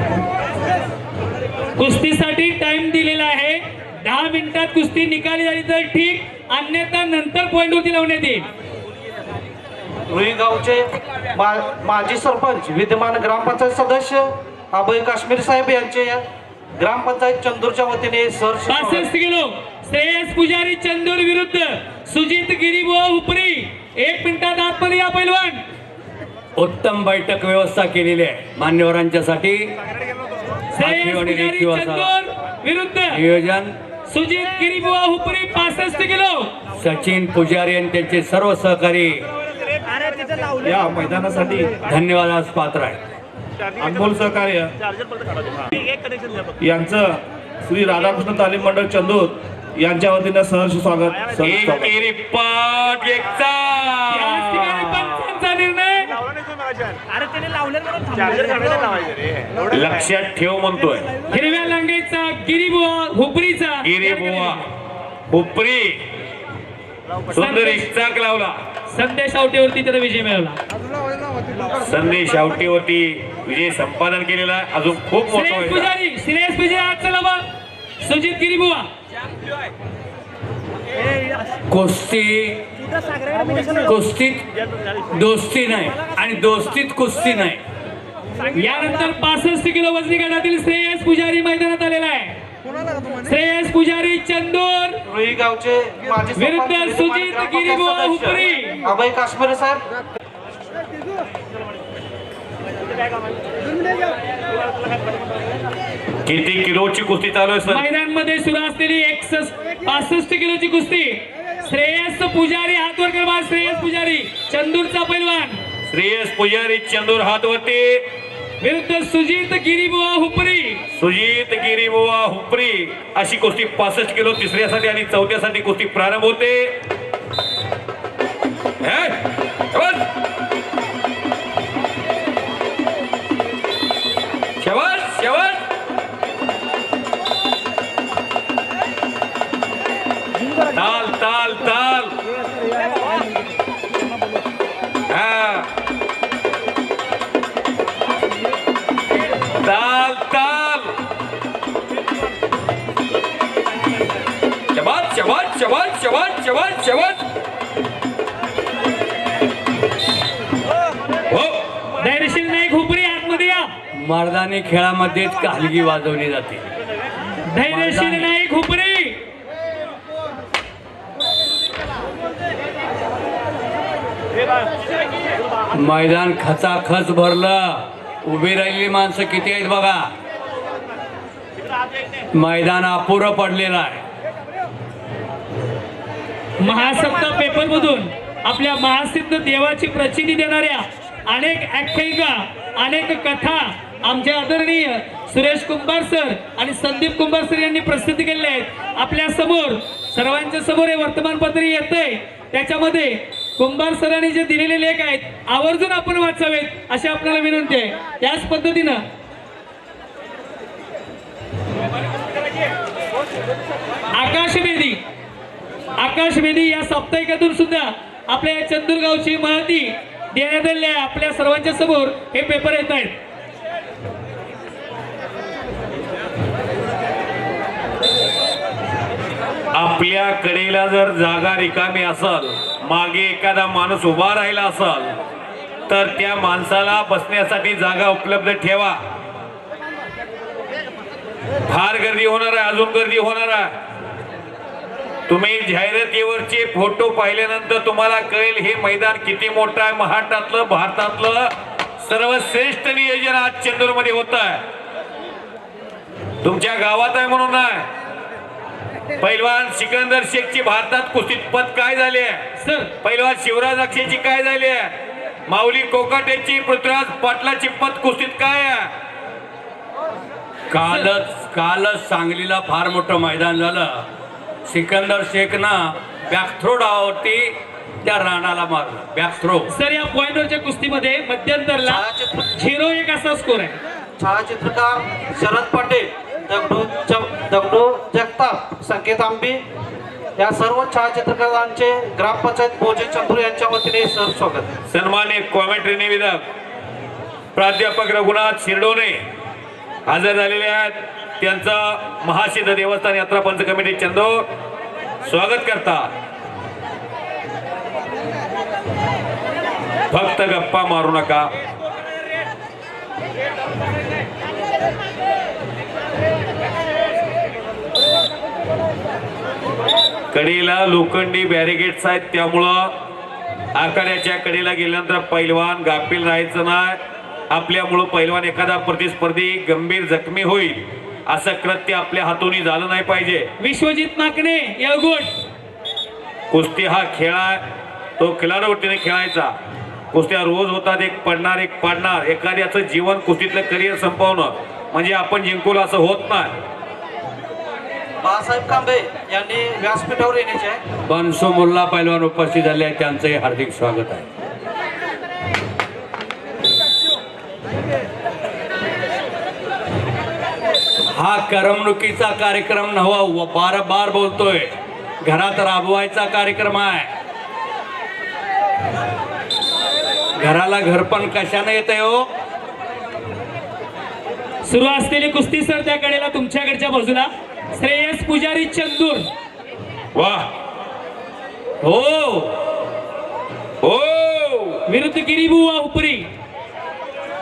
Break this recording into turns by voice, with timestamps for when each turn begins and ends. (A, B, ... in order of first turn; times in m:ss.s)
0:01.8-0:08.5 A
0:10.1-0:16.2 B
0:16.8-0:19.1 B
0:18.7-0:25.6 A
0:26.6-0:29.7 C
0:30.7-0:33.2 A
0:30.8-0:32.1 C
0:33.1-0:33.8 C
0:34.1-0:36.5 A
0:36.7-0:39.3 C
0:40.6-0:41.7 D
0:41.8-0:43.0 C
0:43.8-0:44.7 D
0:46.6-0:51.9 D
0:51.4-0:55.2 E
0:54.1-0:56.2 A
0:59.7-1:01.1 E
1:01.3-1:04.6 A
1:03.8-1:04.7 E
1:05.3-1:06.1 E
1:07.3-1:08.6 E
1:07.3-1:07.8 A
1:08.9-1:10.6 A
1:11.8-1:15.9 E
1:15.3-1:17.4 A
1:18.0-1:18.9 A
1:21.7-1:22.6 C
1:23.7-1:24.5 C
1:25.1-1:27.6 C
1:28.5-1:32.4 A
1:33.2-1:35.0 A
1:35.1-1:39.8 B
1:36.4-1:38.8 A
1:46.2-1:47.8 E
1:47.7-1:55.6 A
1:55.9-1:58.0 E
1:58.6-2:00.8 A
2:00.9-2:06.8 E
2:08.8-2:10.0 E
2:14.6-2:15.6 E
2:20.7-2:22.2 E
2:25.1-2:25.7 E
2:29.6-2:30.9 E
2:34.7-2:37.2 E
2:41.3-2:41.6 E
2:42.0-2:43.7 A
2:43.9-2:46.7 C
2:47.5-2:49.2 A
2:47.7-2:48.3 C
2:55.7-3:00.1 C
3:02.3-3:04.0 C
3:06.6-3:29.0 A
3:34.1-3:35.0 A
3:36.0-3:43.2 A
3:49.7-3:55.1 E
3:55.9-3:59.0 E
4:01.7-4:03.7 E
4:05.3-4:14.6 E
4:16.4-4:17.9 E
4:19.2-4:22.5 E
4:22.6-4:22.9 A
4:23.0-4:24.9 E
4:25.5-4:28.9 E
4:30.7-4:34.1 C
4:34.7-4:39.7 C
4:39.7-4:43.8 A
4:41.8-4:42.4 B
4:44.2-4:49.6 B
4:50.4-4:54.7 B
4:54.9-4:56.4 E
4:57.5-4:59.2 E
5:00.1-5:04.5 E
5:05.2-5:06.1 E
5:10.1-5:11.5 E
5:20.3-5:22.9 E
5:23.7-5:27.0 E
5:27.5-5:33.5 E
5:33.6-5:35.3 A
5:36.5-5:37.6 E
5:38.2-5:39.5 E
5:40.1-5:46.6 E
5:48.2-5:50.8 B
5:51.0-5:54.3 C
6:01.1-6:07.1 C
6:10.4-6:12.3 C
6:14.6-6:19.3 A
6:20.1-6:20.5 E
6:21.8-6:22.6 C
6:23.8-6:24.8 E
6:24.9-6:26.3 A